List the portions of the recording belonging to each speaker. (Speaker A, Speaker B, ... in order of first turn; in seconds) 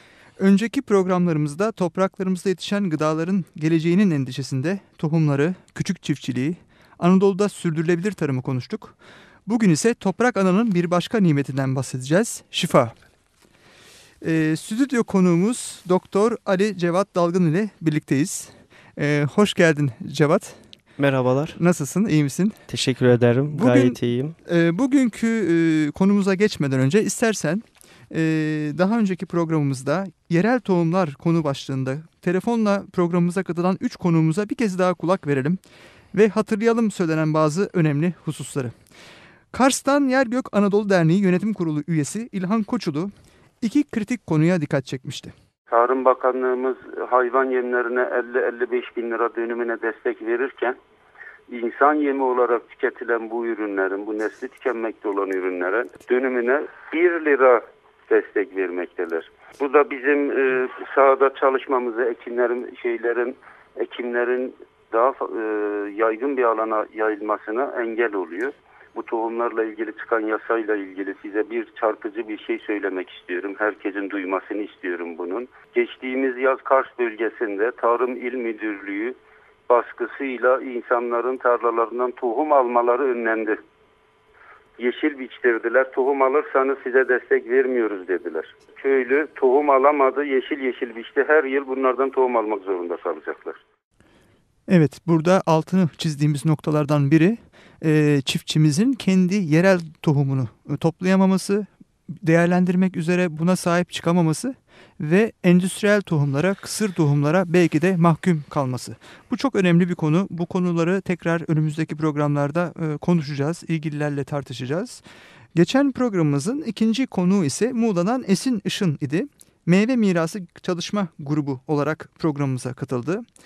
Speaker A: 0.4-8.9, 9.4-12.9, 14.2-20.6, 21.6-22.6, 23.5-35.6, 36.1-38.7, 39.5-45.3, 94.7-101.7, 102.2-115.0, 115.5-123.2
Speaker B: 21.0-21.6, 22.7-24.3
Speaker C: 45.7-50.8, 51.5-79.2, 79.7-83.6, 84.8-93.6